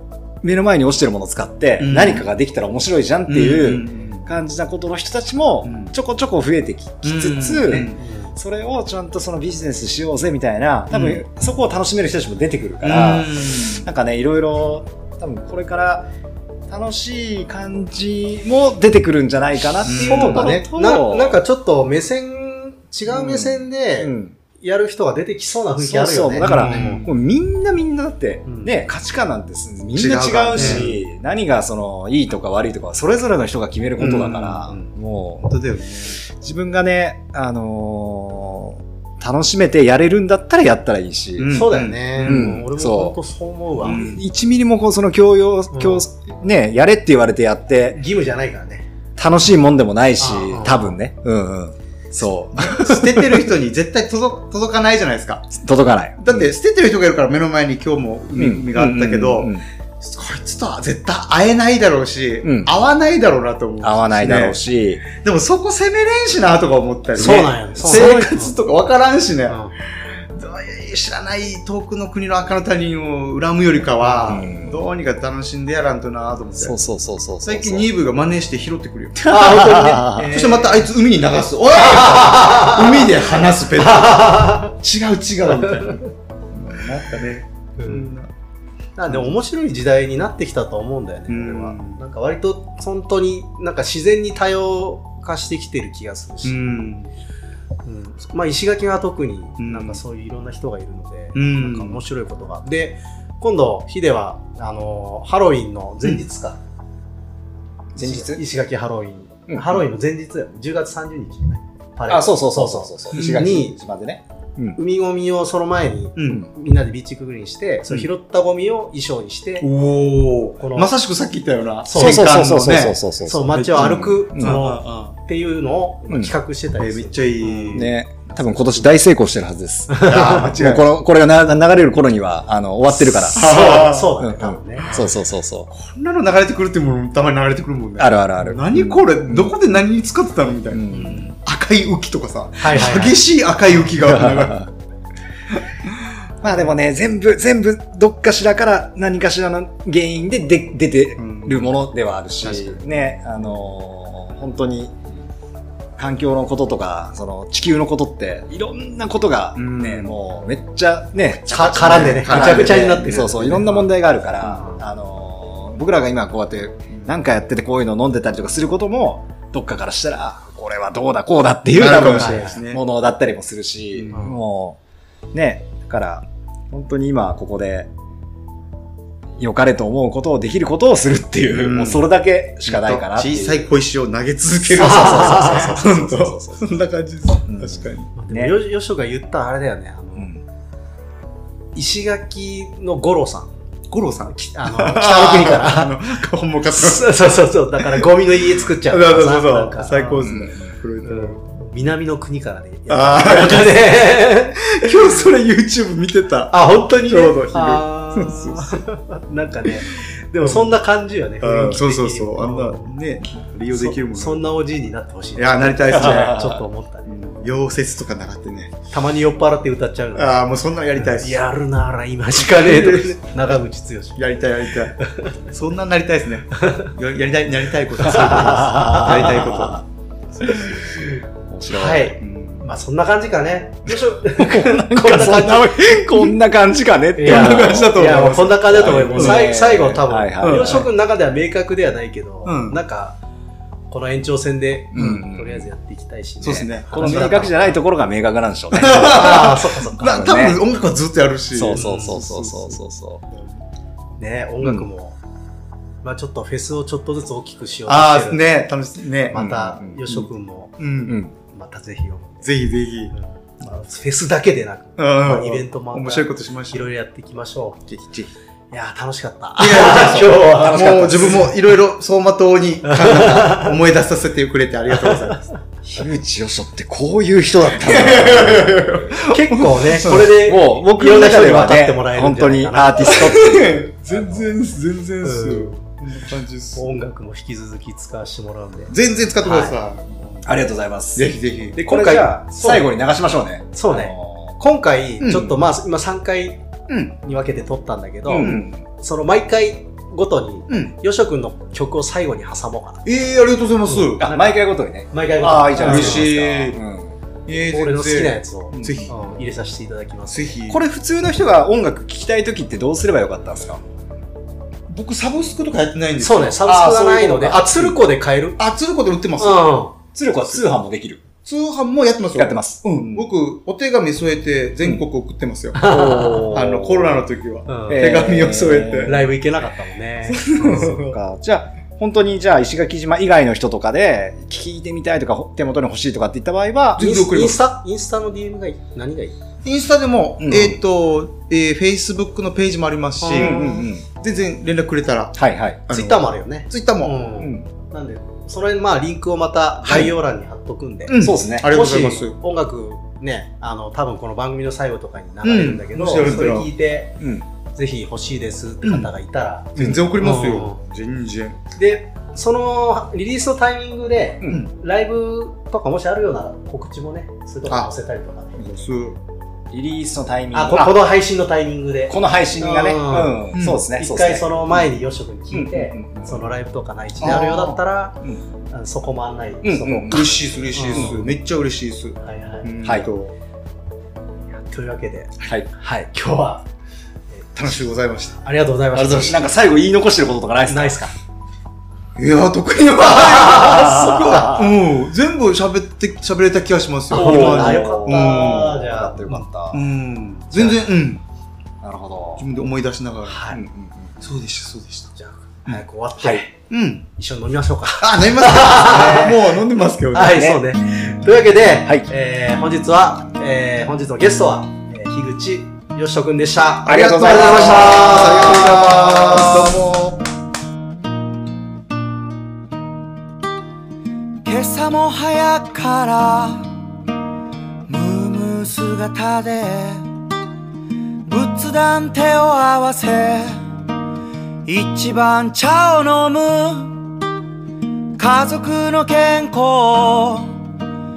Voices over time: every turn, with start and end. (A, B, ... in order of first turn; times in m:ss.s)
0:00.4-0:16.1 A
0:01.8-0:02.3 B
0:03.3-0:04.3 B
0:05.6-0:05.9 B
0:07.0-0:08.0 B
0:08.0-0:08.3 C
0:10.9-0:11.2 B
0:12.8-0:13.9 B
0:16.7-0:21.4 A
0:19.8-0:20.5 B
0:20.0-0:27.1 C
0:23.1-0:24.4 A
0:25.8-0:35.6 A
0:26.4-0:27.1 B
0:28.5-0:28.8 C
0:29.9-0:31.0 B
0:30.6-0:30.9 C
0:34.0-0:34.8 B
0:35.4-0:36.2 B
0:36.3-0:41.6 A
0:41.4-0:42.6 B
0:41.5-0:44.2 C
0:42.2-0:43.2 A
0:43.8-0:48.0 A
0:43.8-0:44.2 B
0:45.7-0:46.1 C
0:47.9-0:48.9 C
0:49.2-0:53.1 A
0:50.2-0:51.0 C
0:52.5-0:55.6 B
0:55.6-0:56.5 A
0:56.2-1:09.6 B
0:58.4-0:59.6 A
1:02.4-1:02.7 A
1:03.8-1:05.0 A
1:07.2-1:08.3 A
1:07.2-1:08.5 C
1:09.5-1:09.7 C
1:10.2-1:16.8 B
1:14.0-1:14.4 C
1:14.3-1:14.8 A
1:16.6-1:17.9 A
1:17.4-1:28.3 B
1:19.2-1:20.3 A
1:19.3-1:20.9 C
1:21.8-1:23.1 C
1:23.8-1:24.7 C
1:25.6-1:26.0 C
1:27.8-1:28.1 C
1:29.0-1:36.7 C
1:31.3-1:32.0 B
1:36.4-1:37.1 B
1:37.8-1:46.6 C
1:39.6-1:40.0 B
1:41.4-1:42.0 B
1:48.0-1:48.4 A
1:48.0-1:53.8 C
1:49.5-1:49.9 A
1:52.1-1:54.8 A
1:53.1-1:53.6 B
1:54.8-1:59.7 C
1:56.2-1:56.5 B
1:59.6-2:03.0 B
2:00.6-2:00.9 C
2:01.9-2:02.6 C
2:02.0-2:04.6 A
2:03.2-2:07.9 C
2:03.5-2:05.2 B
2:06.8-2:08.9 B
2:07.7-2:15.7 A
2:09.9-2:10.4 C
2:10.0-2:10.9 B
2:13.0-2:15.1 C
2:13.3-2:14.2 B
2:15.7-2:24.7 B
2:18.0-2:19.6 A
2:20.7-2:21.2 A
2:22.6-2:23.2 C
2:23.9-2:24.7 A
2:26.4-2:35.0 A
2:31.2-2:31.8 B
2:32.4-2:32.8 B
2:36.0-2:54.8 A
2:39.6-2:40.2 B
2:41.4-2:43.9 C
2:41.8-2:43.3 B
2:44.4-2:44.8 C
2:51.7-2:52.8 B
2:52.0-2:52.6 C
2:54.0-2:54.4 B
2:55.3-2:57.9 A
2:59.4-3:03.7 A
3:01.5-3:02.1 B
3:02.6-3:08.1 B
3:04.7-3:06.8 A
3:04.8-3:05.8 C
3:07.5-3:08.6 A
3:08.2-3:10.3 C
3:10.2-3:10.4 A
3:11.8-3:13.5 C
3:13.9-3:17.2 B
3:14.3-3:15.9 C
3:16.7-3:20.3 C
3:17.8-3:21.4 B
3:20.2-3:20.7 A
3:21.0-3:24.6 C
3:22.9-3:24.0 B
3:24.7-3:28.8 B
3:26.5-3:33.0 C
3:31.4-3:34.6 B
3:33.7-3:37.4 C
3:35.4-3:36.5 B
3:35.9-3:36.6 A
3:37.1-3:38.8 B
3:38.9-3:40.5 C
3:40.2-3:41.4 B
3:41.1-3:44.2 C
3:42.4-3:43.2 B
3:44.2-3:49.8 B
3:45.0-3:45.4 C
3:46.6-3:46.9 C
3:48.1-3:49.2 C
3:48.4-3:49.8 A
3:50.4-3:50.9 B
3:50.4-3:52.2 A
3:50.9-3:56.2 C
3:52.2-3:52.7 B
3:54.4-4:00.9 A
3:55.2-3:56.2 B
3:57.2-4:03.2 C
3:57.2-4:00.9 B
4:02.5-4:02.8 B
4:03.9-4:07.8 C
4:04.9-4:05.7 A
4:05.0-4:05.2 B
4:06.4-4:07.5 B
4:06.6-4:10.6 A
4:08.7-4:13.5 B
4:08.8-4:10.2 C
4:11.5-4:13.2 A
4:11.7-4:12.2 C
4:14.2-4:15.2 C
4:14.6-4:14.9 A
4:16.0-4:18.4 C
4:17.9-4:19.5 B
4:19.3-4:20.8 C
4:19.3-4:20.0 A
4:20.8-4:21.2 B
4:21.1-4:21.3 A
4:21.5-4:22.5 C
4:22.4-4:23.2 B
4:23.1-4:27.8 C
4:25.0-4:26.9 B
4:27.9-4:28.3 B
4:28.7-4:31.4 C
4:29.6-4:35.5 B
4:30.4-4:31.5 A
4:32.8-4:33.7 C
4:35.0-4:35.4 C
4:35.8-4:39.2 A
4:37.8-4:40.3 B
4:39.2-4:43.5 C
4:40.2-4:43.9 A
4:43.0-4:46.9 B
4:45.2-4:45.8 C
4:46.8-4:49.8 C
4:48.9-4:50.5 B
4:50.4-4:54.6 A
4:51.2-4:51.8 B
4:51.8-4:52.9 C
4:53.7-4:56.6 C
4:55.2-4:55.5 B
4:56.9-4:57.2 B
4:57.2-5:03.0 C
4:58.3-4:58.9 A
4:58.4-4:58.7 B
5:00.7-5:01.0 B
5:03.0-5:04.3 B
5:03.9-5:06.3 C
5:04.2-5:07.2 A
5:05.8-5:06.8 B
5:07.5-5:09.4 B
5:07.7-5:10.4 C
5:08.8-5:09.1 A
5:10.3-5:10.8 B
5:10.7-5:13.8 A
5:14.9-5:17.9 B
5:16.2-5:18.6 C
5:18.6-5:19.8 B
5:19.4-5:20.0 C
5:20.2-5:21.2 A
5:21.4-5:29.3 B
5:22.4-5:23.3 A
5:25.8-5:26.6 C
5:25.8-5:27.2 A
5:27.7-5:28.3 C
5:27.9-5:29.3 A
5:29.0-5:31.1 C
5:30.4-5:31.1 B
5:30.6-5:37.1 A
5:37.0-5:37.6 B
5:37.0-5:39.4 C
5:39.6-5:47.3 B
5:40.4-5:40.8 A
5:43.2-5:43.8 C
5:43.3-5:44.1 A
5:45.4-5:45.8 A
5:45.9-5:57.2 C
5:47.4-5:47.7 A
5:51.1-5:52.4 B
5:51.2-5:51.7 A
5:55.4-5:56.7 B
5:57.2-5:57.5 A
5:57.7-6:00.8 C
5:58.8-5:59.1 B
5:59.8-6:01.6 B
6:01.8-6:08.6 C
6:04.5-6:04.7 B
6:08.6-6:09.2 B
6:09.7-6:11.0 A
6:10.5-6:18.2 C
6:12.1-6:14.8 A
6:13.5-6:13.8 B
6:15.5-6:16.5 A
6:17.2-6:17.7 B
6:17.2-6:18.4 A
6:18.7-6:21.3 C
6:19.6-6:21.2 A
6:20.0-6:23.3 B
6:22.2-6:22.7 C
6:22.8-6:23.1 A
6:24.5-6:26.6 C
6:27.6-6:28.4 B
6:28.3-6:29.5 C
6:28.9-6:31.1 A
6:30.7-6:31.1 C
6:32.2-6:41.2 B
6:33.2-6:34.7 A
6:33.6-6:34.5 C
6:37.1-6:39.3 C
6:37.1-6:39.8 A
6:41.8-6:42.4 A
6:42.4-6:43.6 B
6:43.3-6:43.6 C
6:43.5-6:44.2 A
6:44.2-6:45.1 B
6:45.2-6:46.5 C
6:46.2-6:46.4 A
6:46.7-6:47.1 B
6:47.2-6:49.3 C
6:48.0-6:50.6 B
6:48.9-6:49.4 A
6:50.1-6:58.7 C
6:50.3-6:50.6 A
6:56.9-6:59.9 A
6:56.9-7:00.2 B
7:04.4-7:06.7 D
7:07.9-7:10.1 D
7:11.2-7:13.7 D
7:14.6-7:17.1 D
7:18.2-7:20.6 D